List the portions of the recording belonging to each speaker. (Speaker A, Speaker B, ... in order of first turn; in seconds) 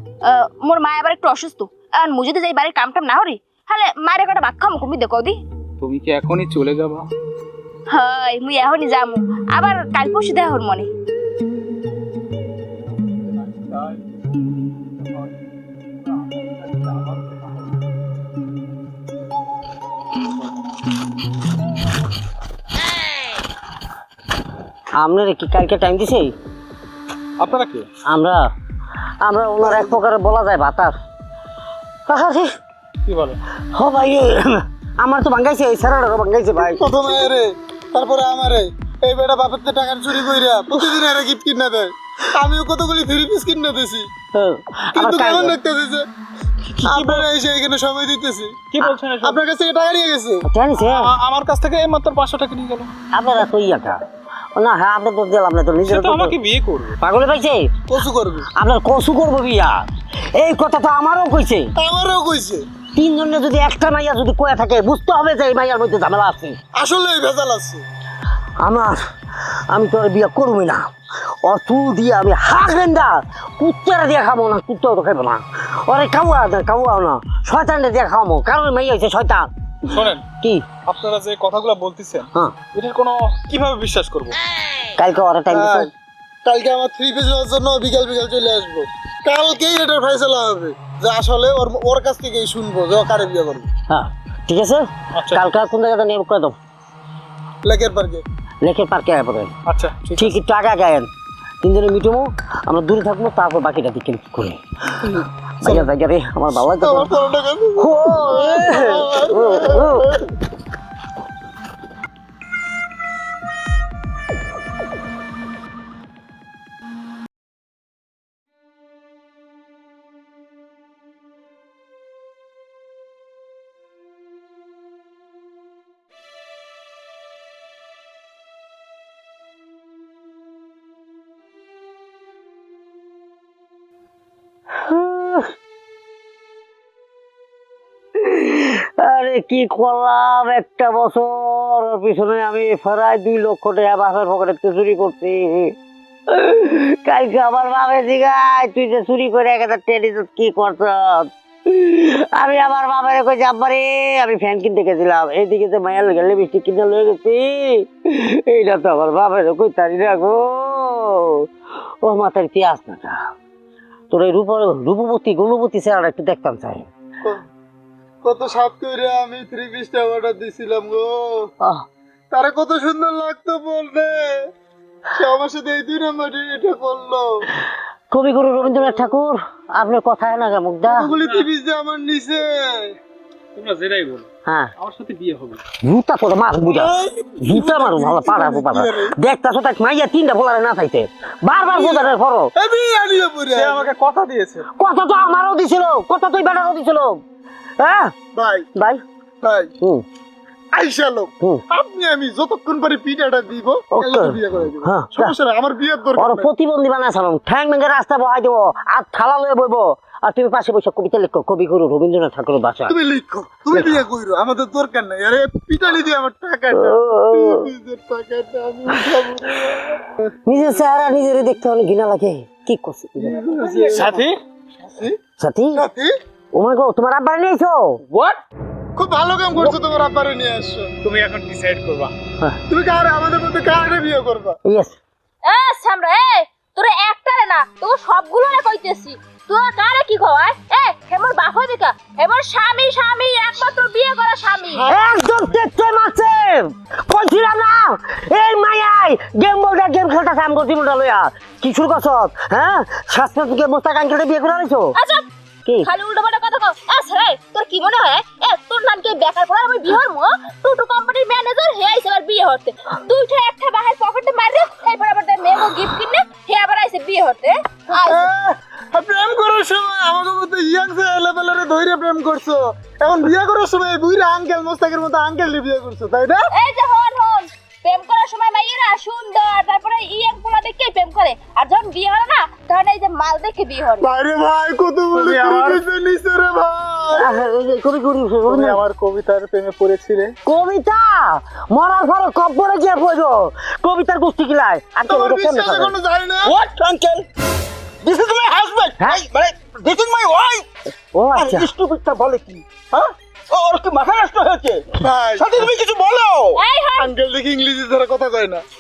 Speaker A: 0.2-5.4, 7.9-10.9, 235.4-244.9, 254.9-255.2, 255.8-268.3, 276.5-284.1, 306.6-307.1
Speaker B: 5.8-7.1, 13.4-14.0, 16.4-17.2, 27.4-27.9, 33.0-33.4, 46.7-47.3, 48.7-49.4, 50.8-52.9, 55.9-57.0, 79.9-80.2, 80.9-84.4, 95.2-95.5, 99.7-100.4, 181.2-181.5, 183.6-185.6, 193.5-194.7, 223.8-224.4, 228.1-228.4, 231.0-232.1, 285.1-285.8, 288.5-290.4
Speaker C: 25.0-26.4, 28.1-28.5, 29.2-30.9, 32.1-32.5, 33.7-36.8, 44.3-45.6, 50.5-51.1, 53.1-54.0, 54.6-56.4, 57.0-57.8, 58.5-59.8, 60.3-61.7, 63.0-66.6, 68.6-69.0, 69.7-70.9, 71.4-80.7, 85.0-85.9, 93.9-96.6, 98.6-99.5, 100.2-101.1, 101.6-105.1, 105.6-110.2, 134.7-135.5, 138.2-145.8, 146.3-161.5, 162.0-163.2, 164.1-166.9, 178.1-181.1, 184.5-184.7, 185.8-192.5, 194.7-197.2, 197.8-198.1, 198.8-199.0, 203.9-205.3, 206.2-213.0, 213.7-214.0, 216.7-217.7, 220.5-223.4, 225.4-225.8, 226.5-228.0, 234.7-235.0, 244.8-255.0, 287.1-288.8, 290.4-296.0, 301.1-301.7
Speaker D: 36.8-44.1, 45.0-46.1, 46.8-48.6, 49.2-50.4, 57.9-58.5, 61.8-62.6, 66.7-67.9, 85.5-85.9, 86.4-93.7, 97.6-98.2, 106.7-110.1, 168.2-171.5, 172.3-174.2, 175.1-177.3, 180.9-183.0, 186.6-188.9, 191.7-193.8, 198.3-198.7, 199.4-199.7, 200.7-206.5, 212.9-219.9, 223.2-224.2, 225.8-226.1, 229.0-230.9, 232.7-234.6, 268.1-276.5, 284.0-287.3, 295.1-296.5, 305.0-305.5, 307.0-308.6
Speaker E: 296.4-297.3, 298.0-300.7, 301.4-306.6